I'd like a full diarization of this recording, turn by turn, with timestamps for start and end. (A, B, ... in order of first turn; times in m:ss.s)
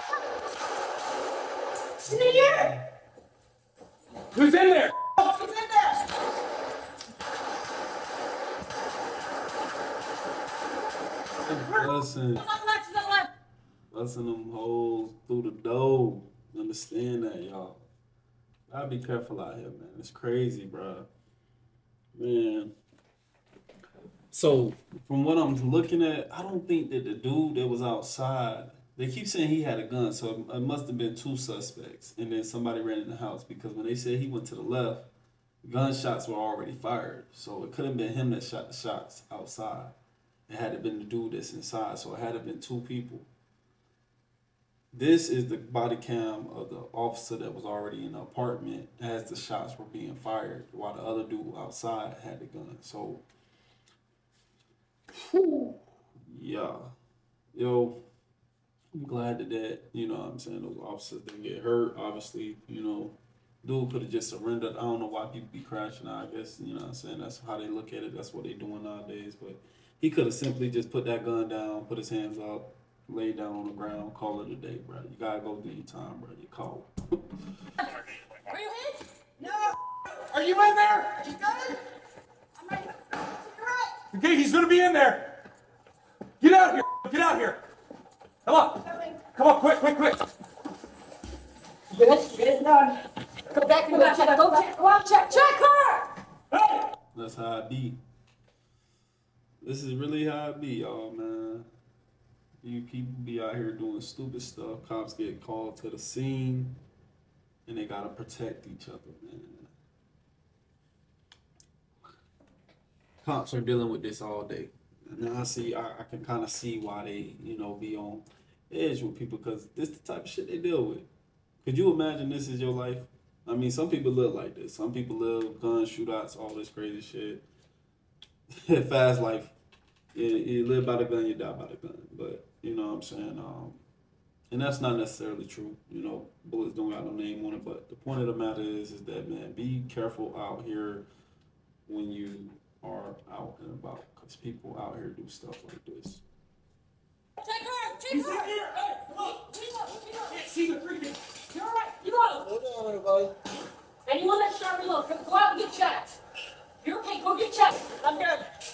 0:02.1-0:02.8 A
0:02.3-0:02.7 B
0:04.3-0:05.0 C
0:11.3-0:12.5 A
0:12.5-0:13.3 B
0:13.9-0:17.8 A
0:18.7-0:21.1 A
0:22.1-0:22.7 A
0:24.3-0:35.1 A
0:35.6-0:39.9 A
0:40.5-0:43.3 A
0:44.9-0:53.2 A
0:55.1-0:56.9 A
0:57.5-0:58.0 A
0:58.9-1:16.9 A
1:18.5-1:19.0 B
1:20.3-1:21.3 C
1:21.2-1:21.8 B
1:22.6-1:23.9 B
1:24.1-1:25.3 C
1:26.4-1:27.6 C
1:28.5-1:30.2 C
1:28.9-1:29.3 B
1:31.9-1:32.9 B
1:33.5-1:36.1 B
1:37.1-1:38.0 A
1:39.6-1:41.7 A
1:42.6-1:46.8 A
1:47.6-1:49.7 A
1:53.2-2:01.1 A
2:01.6-2:07.4 A
2:08.6-2:09.5 A
2:10.1-2:13.8 A
2:14.5-2:21.1 A
2:21.8-2:26.2 A
2:27.4-2:30.8 B
2:28.1-2:28.5 C
2:31.5-2:32.5 B
2:32.7-2:33.0 A
2:34.1-2:36.1 B
2:36.8-2:38.4 B